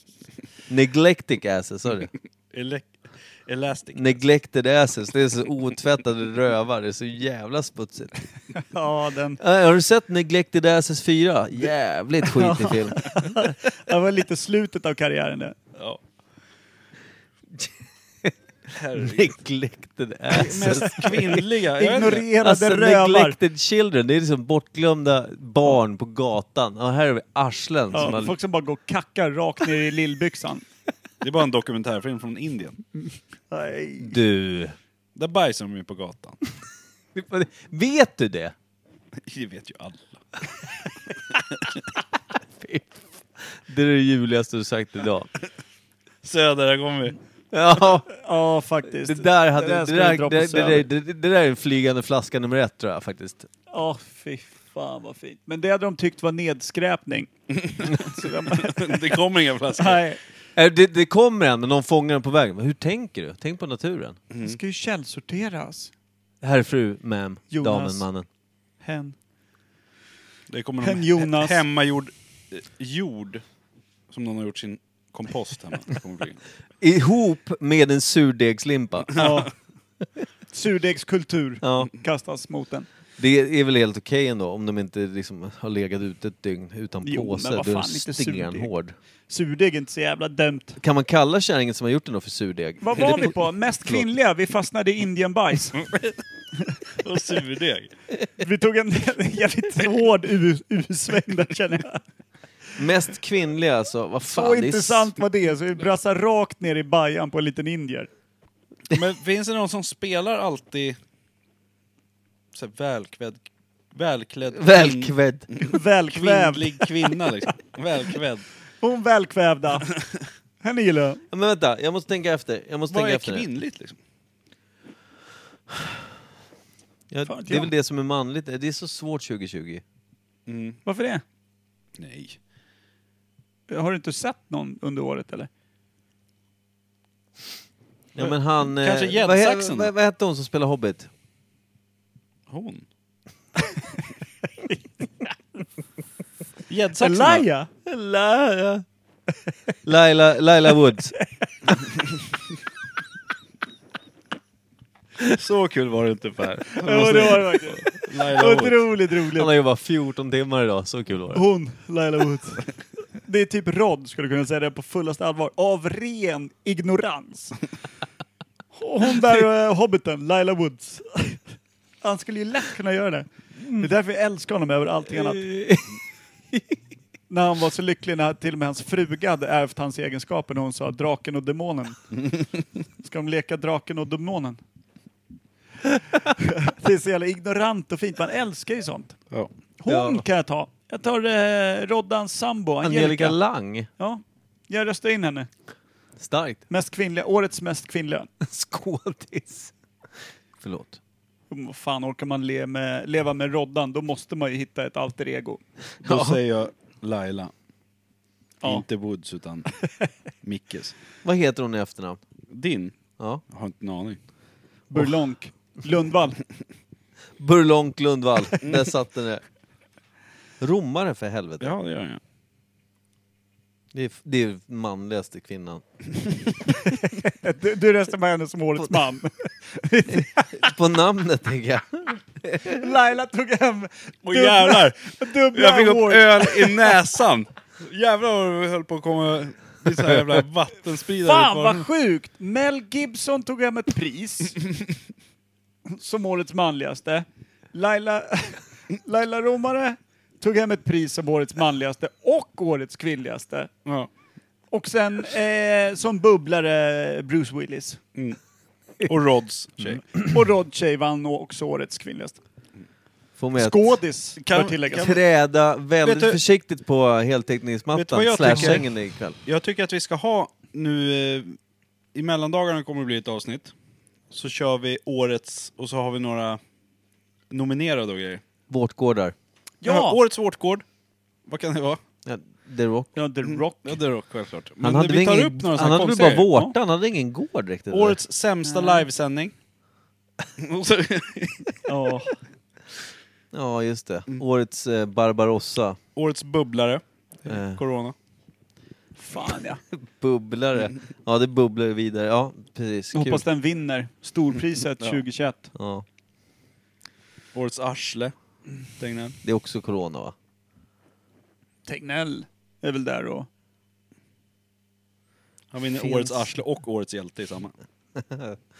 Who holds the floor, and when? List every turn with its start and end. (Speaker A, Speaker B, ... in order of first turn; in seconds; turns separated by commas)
Speaker A: 0.7-2.1, Speaker B: 2.5-4.1, Speaker A: 3.9-8.2, Speaker C: 8.6-9.4, Speaker A: 9.4-13.1, Speaker C: 12.3-15.6, Speaker A: 17.6-18.3, Speaker B: 18.8-19.3, Speaker A: 19.0-21.5, Speaker B: 20.3-22.3, Speaker C: 21.8-23.4, Speaker A: 22.1-28.4, Speaker C: 27.9-30.6, Speaker B: 31.2-32.8, Speaker C: 33.5-34.2, Speaker A: 34.0-34.8, Speaker B: 35.2-36.4, Speaker A: 37.1-38.5, Speaker B: 39.2-40.2, Speaker A: 42.6-45.3, Speaker B: 46.2-47.2, Speaker A: 47.5-48.1, Speaker C: 48.1-50.9, Speaker A: 48.9-53.5, Speaker C: 53.7-57.3, Speaker B: 57.6-60.0, Speaker C: 57.9-59.1, Speaker C: 59.8-60.2, Speaker A: 60.6-64.2, Speaker B: 64.3-64.6, Speaker C: 64.4-65.9, Speaker A: 66.4-68.3, Speaker C: 67.5-68.1, Speaker C: 68.8-69.2, Speaker B: 70.5-73.4, Speaker C: 70.8-71.6, Speaker B: 74.1-76.4, Speaker A: 76.8-79.2, Speaker C: 79.2-79.5, Speaker C: 80.5-82.9, Speaker A: 81.6-81.9, Speaker A: 83.2-89.0, Speaker C: 87.0-88.7, Speaker C: 89.3-90.8, Speaker A: 90.8-94.1, Speaker C: 92.8-95.8, Speaker B: 97.0-97.9, Speaker C: 98.4-102.0, Speaker A: 102.8-105.1, Speaker C: 104.3-108.1, Speaker B: 108.9-111.0, Speaker B: 112.5-118.5, Speaker A: 114.5-115.5, Speaker C: 115.6-117.3, Speaker C: 118.8-119.9, Speaker C: 120.6-121.2, Speaker A: 121.3-123.5, Speaker B: 122.9-124.0, Speaker A: 127.1-129.8, Speaker C: 127.2-127.7, Speaker B: 130.5-130.8, Speaker C: 130.8-131.2, Speaker B: 132.0-132.4, Speaker C: 133.7-135.5, Speaker A: 138.2-141.1, Speaker B: 138.2-139.9, Speaker B: 142.5-142.8, Speaker B: 146.7-147.5, Speaker C: 147.0-147.7, Speaker A: 147.9-148.9, Speaker A: 149.8-151.2, Speaker B: 155.3-158.9, Speaker C: 156.7-159.5, Speaker A: 159.3-161.5, Speaker C: 161.3-162.7, Speaker C: 163.2-167.6, Speaker C: 168.7-171.4, Speaker C: 172.0-175.5, Speaker A: 175.1-176.0, Speaker C: 177.3-182.1, Speaker C: 183.0-184.6, Speaker C: 186.2-189.2, Speaker C: 189.8-193.4, Speaker A: 189.9-190.2, Speaker A: 192.8-193.9, Speaker C: 194.0-195.5, Speaker A: 196.2-196.6, Speaker C: 196.7-198.3, Speaker A: 198.4-199.7, Speaker A: 200.6-201.0, Speaker C: 201.5-205.6, Speaker B: 206.0-207.5, Speaker A: 206.0-206.4, Speaker B: 208.6-209.7, Speaker B: 210.4-210.9, Speaker A: 211.2-212.2, Speaker B: 212.5-212.9, Speaker B: 213.5-214.2, Speaker C: 214.9-216.4, Speaker A: 217.4-219.4, Speaker B: 218.6-218.9, Speaker A: 220.6-221.8, Speaker B: 221.6-222.2, Speaker A: 223.9-225.8, Speaker C: 227.0-230.7, Speaker A: 230.1-232.8, Speaker C: 232.6-236.9, Speaker B: 234.2-241.8, Speaker C: 241.2-244.6, Speaker C: 245.9-253.7, Speaker C: 254.7-258.0, Speaker B: 259.0-260.0, Speaker C: 260.2-262.4, Speaker A: 263.4-264.0, Speaker C: 263.6-265.1, Speaker B: 264.4-265.2, Speaker A: 264.9-269.4, Speaker B: 266.0-266.4, Speaker B: 267.9-268.9, Speaker C: 268.5-268.8, Speaker B: 269.4-271.6, Speaker B: 272.1-273.7, Speaker B: 274.3-276.6, Speaker B: 277.5-278.4, Speaker A: 278.7-279.4, Speaker C: 279.8-280.2, Speaker B: 279.9-280.9, Speaker B: 281.5-282.0, Speaker A: 282.3-283.1, Speaker C: 283.2-284.0, Speaker B: 283.8-286.8, Speaker A: 284.8-288.2, Speaker B: 287.9-289.6, Speaker C: 288.6-289.1, Speaker B: 290.6-291.8, Speaker C: 291.9-292.4, Speaker A: 293.5-296.0, Speaker B: 296.2-298.1, Speaker A: 297.5-297.8, Speaker C: 299.2-299.8, Speaker A: 299.9-303.4, Speaker C: 303.1-305.7, Speaker A: 305.8-306.1, Speaker B: 307.5-308.3, Speaker B: 309.0-309.4, Speaker A: 309.4-310.4, Speaker C: 311.9-313.5, Speaker B: 315.7-317.7, Speaker A: 316.0-316.4, Speaker A: 318.2-318.6